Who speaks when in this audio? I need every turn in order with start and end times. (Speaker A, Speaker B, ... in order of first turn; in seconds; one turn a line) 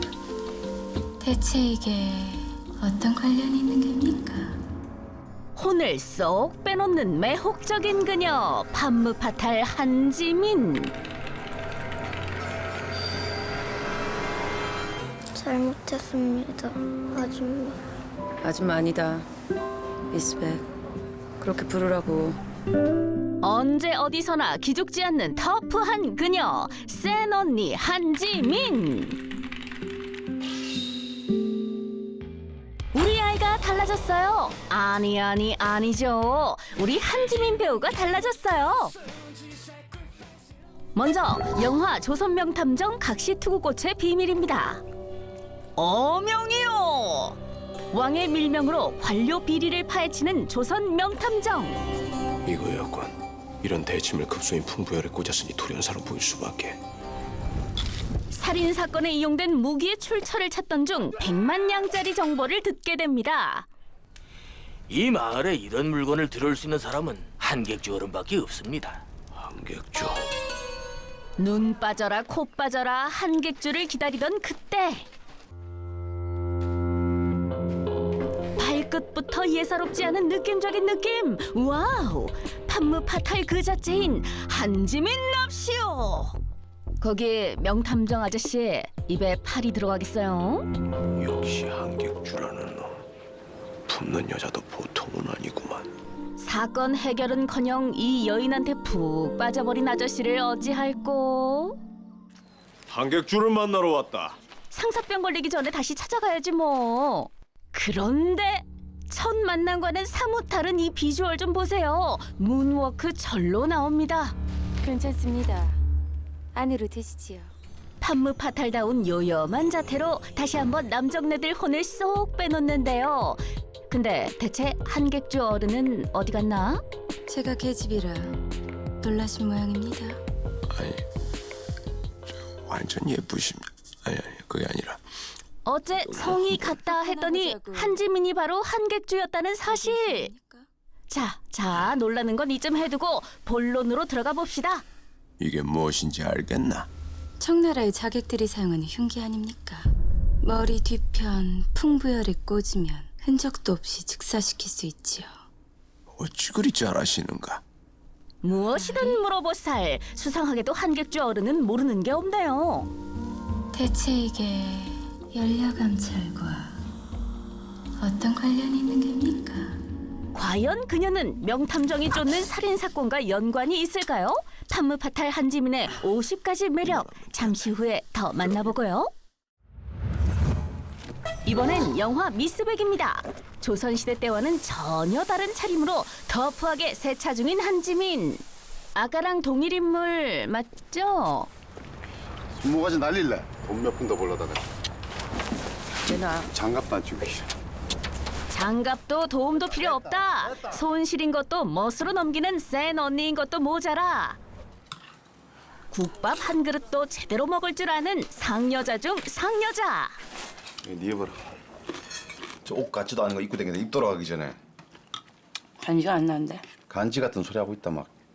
Speaker A: 1.2-4.6
Speaker B: 5.5-10.9
Speaker C: 15.3-17.8
Speaker D: 18.4-19.3
Speaker D: 20.1-20.6
Speaker D: 21.4-22.4
Speaker B: 23.4-29.2
Speaker B: 32.9-38.9
Speaker B: 41.0-44.8
Speaker B: 45.8-47.4
Speaker B: 47.9-51.8
Speaker E: 52.5-56.8
Speaker B: 58.3-63.7
Speaker F: 64.9-69.0
Speaker E: 69.3-70.3
Speaker B: 71.4-75.0
Speaker B: 78.6-86.3
Speaker B: 87.0-90.7
Speaker E: 91.2-93.0
Speaker E: 93.9-95.9
Speaker B: 96.4-101.8
Speaker E: 102.9-104.3
Speaker B: 104.7-114.3
Speaker A: 114.8-115.8
Speaker A: 116.5-117.5
Speaker B: 118.0-126.8
Speaker A: 127.3-128.4
Speaker A: 129.0-130.2
Speaker E: 130.7-131.0
Speaker E: 132.6-135.0
Speaker B: 135.6-140.3
Speaker E: 136.0-136.7
Speaker A: 136.7-138.0
Speaker A: 139.6-140.7
Speaker B: 141.1-144.8
Speaker E: 145.4-146.9
Speaker A: 147.4-149.9
Speaker A: 150.4-155.3
Speaker E: 156.2-157.6
Speaker B: 158.4-162.9
Speaker A: 158.7-159.2
Speaker A: 163.7-166.8
Speaker A: 168.0-169.8
Speaker B: 170.3-179.1
Speaker E: 176.8-177.7
Speaker B: 181.4-188.4
Speaker B: 188.9-191.5
Speaker G: 192.6-194.6
Speaker D: 196.1-196.5
Speaker G: 196.5-197.5
Speaker B: 198.5-204.4
Speaker B: 205.9-210.2
Speaker G: 210.8-211.4
Speaker G: 212.6-214.6
Speaker D: 215.8-216.6
Speaker G: 216.9-218.1